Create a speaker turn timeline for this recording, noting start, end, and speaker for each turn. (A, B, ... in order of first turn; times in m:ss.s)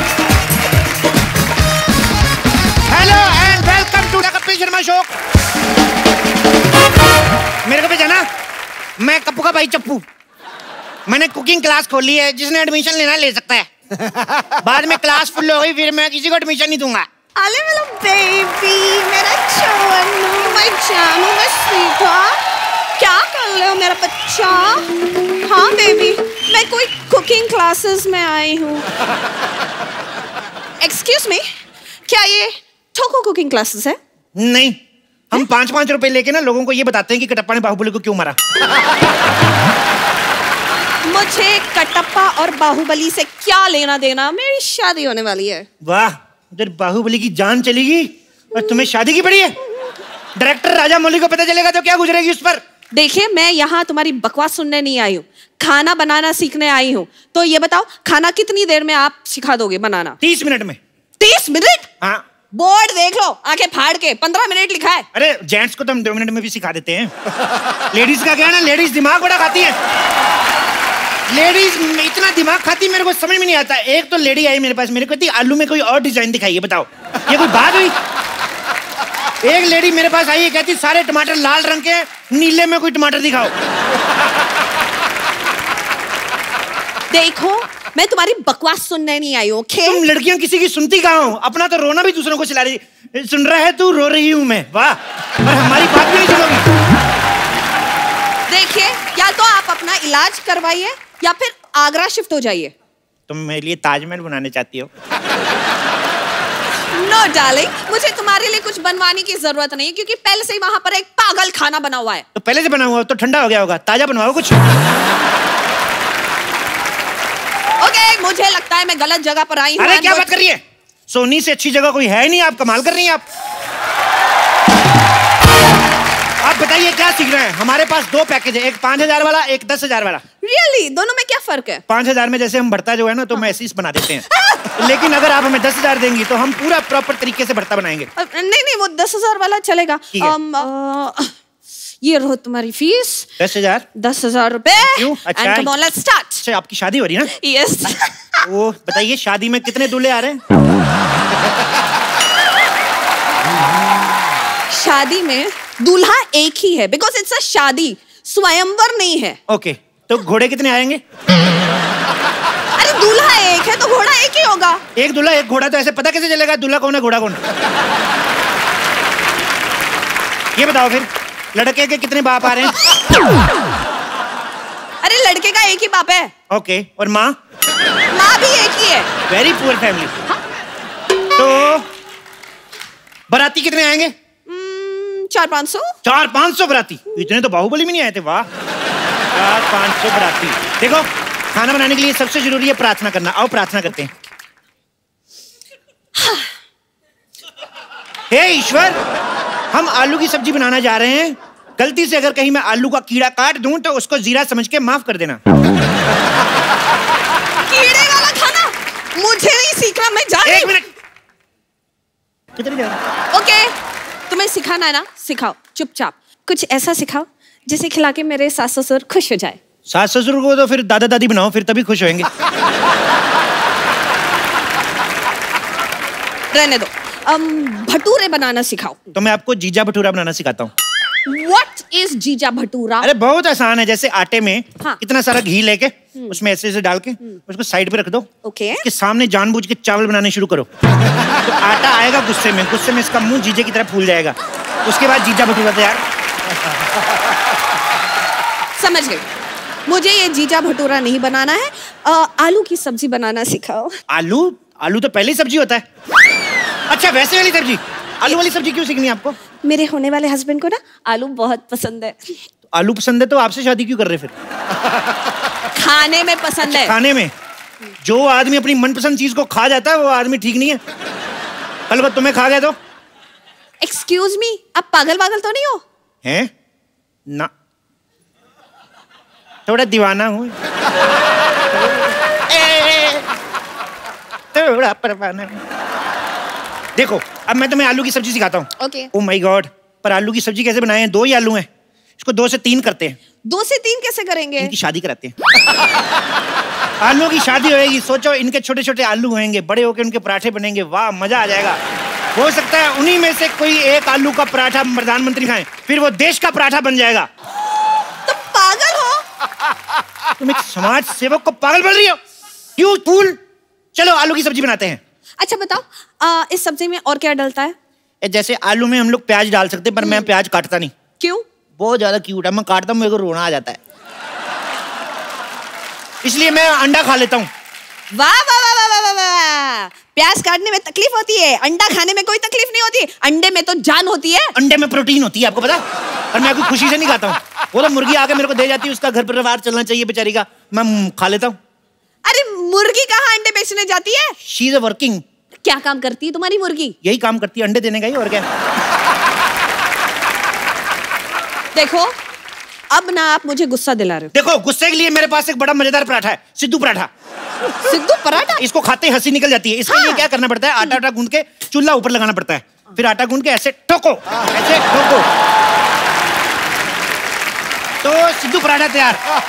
0:02.9-0:05.1 A
0:07.6-0:08.3 A
0:09.0-0:10.0 A
0:11.1-0:13.7 A
0:14.6-0:17.1 A
0:17.4-0:22.4 B
0:23.0-0:24.9 B
0:25.4-0:28.9 B
0:30.8-0:31.4 B
0:32.1-0:34.0 B
0:34.4-0:34.8 A
0:35.3-0:38.4 A
0:41.0-0:45.7 B
0:45.8-0:49.6 A
0:50.4-0:52.6 A
0:52.9-1:00.2 B
1:00.2-1:00.8 A
1:01.2-1:01.9 B
1:02.5-1:05.1 B
1:05.1-1:07.1 A
1:07.9-1:09.8 A
1:11.3-1:18.0 A
1:19.4-1:23.5 A
1:27.1-1:30.0 B
1:29.8-1:36.6 A
1:38.5-1:42.7 B
1:43.3-1:44.9 A
1:46.9-1:52.2 B
1:52.4-1:54.6 A
1:57.8-2:00.3 B
1:59.8-2:03.2 A
2:06.4-2:10.2 A
2:10.4-2:11.8 B
2:11.9-2:18.1 A
2:18.2-2:21.4 B
2:22.0-2:23.3 B
2:23.4-2:23.9 A
2:24.0-2:26.4 B
2:24.8-2:25.7 A
2:26.4-2:27.3 A
2:27.3-2:28.1 B
2:28.4-2:30.4 A
2:34.7-2:39.4 B
2:39.5-2:41.0 A
2:42.8-2:44.8 B
2:45.0-2:47.4 A
2:50.6-2:52.8 A
2:55.0-2:56.3 B
2:56.5-2:57.4 A
2:58.1-2:59.1 B
2:59.3-3:00.1 A
3:01.4-3:01.9 A
3:03.3-3:04.1 A
3:04.5-3:05.9 B
3:06.0-3:08.5 A
3:09.3-3:14.1 A
3:16.2-3:16.5 B
3:18.3-3:19.0 A
3:19.7-3:25.4 A
3:27.7-3:30.8 B
3:30.5-3:30.9 A
3:32.6-3:33.0 A
3:33.3-3:33.7 B
3:34.3-3:39.6 B
3:39.9-3:42.3 A
3:46.5-3:49.0 B
3:49.1-3:50.7 A
3:51.3-3:53.1 B
3:53.0-3:58.3 A
3:58.4-3:58.8 B
3:58.8-4:00.7 A
4:01.4-4:06.0 A
4:08.8-4:09.2 B
4:09.9-4:14.0 B
4:14.1-4:15.8 A
4:16.9-4:19.4 A
4:19.6-4:22.4 B
4:22.7-4:24.3 A
4:25.8-4:26.9 B
4:26.7-4:27.3 A
4:28.0-4:30.8 A
4:31.9-4:32.8 A
4:33.8-4:35.8 B
4:36.2-4:36.5 A
4:39.7-4:40.6 A
4:42.5-4:43.3 A
4:44.5-4:45.6 A
4:47.0-4:51.7 A
4:48.8-4:49.1 B
4:52.2-4:53.2 A
4:53.5-4:54.7 B
4:54.6-4:55.4 A
4:57.0-5:01.8 A
5:02.4-5:07.3 A
5:08.3-5:09.2 B
5:10.4-5:12.2 A
5:12.8-5:13.4 A
5:14.0-5:15.0 A
5:15.4-5:17.8 B
5:18.2-5:20.9 A
5:21.2-5:21.5 B
5:21.8-5:23.8 A
5:26.2-5:27.5 A
5:28.1-5:34.5 B
5:34.6-5:35.8 A
5:36.3-5:41.6 A
5:42.2-5:44.4 B
5:44.4-5:45.2 A
5:45.6-5:47.0 B
5:47.0-5:48.5 A
5:51.7-5:52.2 B
5:52.9-5:54.3 B
5:54.3-5:57.1 A
5:57.8-5:58.6 B
5:58.6-6:05.3 A
5:59.9-6:00.2 B
6:08.0-6:09.2 A